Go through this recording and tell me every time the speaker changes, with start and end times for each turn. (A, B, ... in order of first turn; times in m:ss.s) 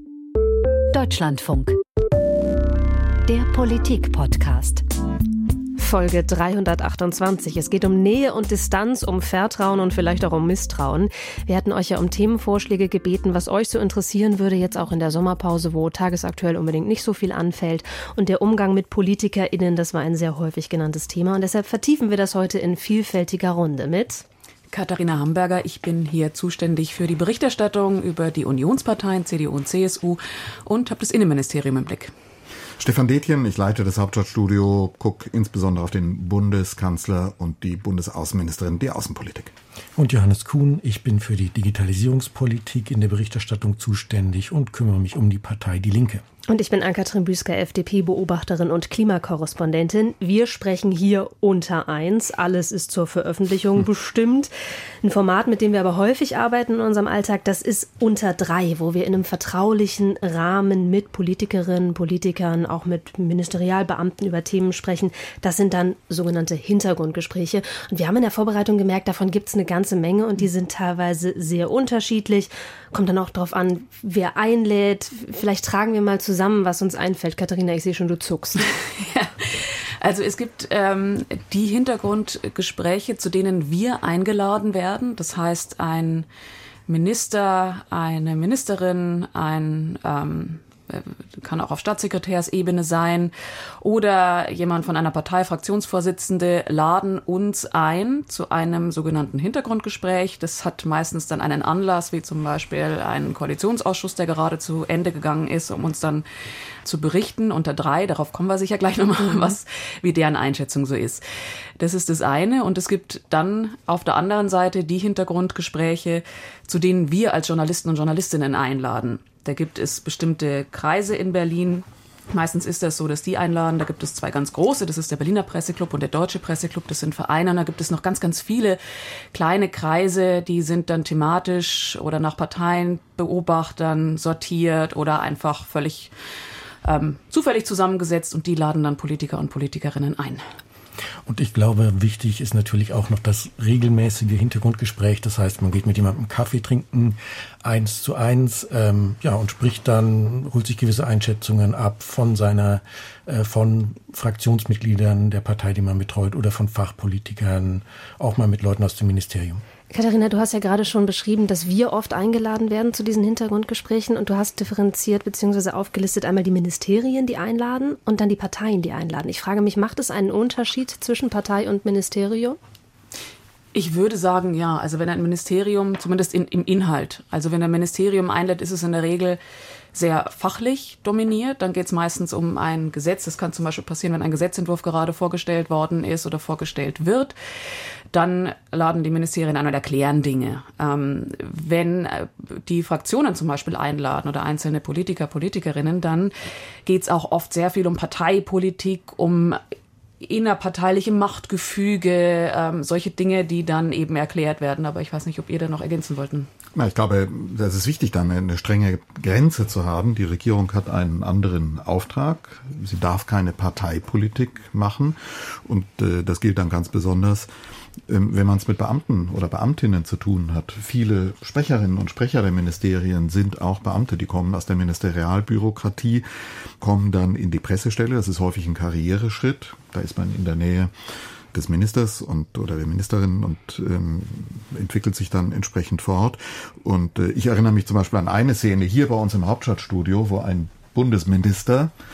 0:00.9-0:01.8 A
0:03.3-0:04.8 A
0:05.8-0:24.2 B
0:24.7-0:32.1 C
0:32.8-0:39.5 D
0:40.0-0:46.2 E
0:46.5-0:54.5 B
0:55.0-1:18.7 B
1:19.0-1:26.2 C
1:26.9-1:46.2 C
1:46.8-1:51.2 C
1:51.8-2:08.8 C
2:09.3-2:16.1 C
2:16.8-2:20.4 C
2:21.3-2:39.6 E
2:39.9-2:52.6 B
2:53.7-2:59.4 C
2:59.9-3:07.3 C
3:08.1-3:16.3 C
3:16.8-3:19.6 C
3:20.2-3:26.5 C
3:26.7-3:37.5 D
3:38.1-3:46.2 D
3:46.8-3:50.9 D
3:51.5-4:01.9 D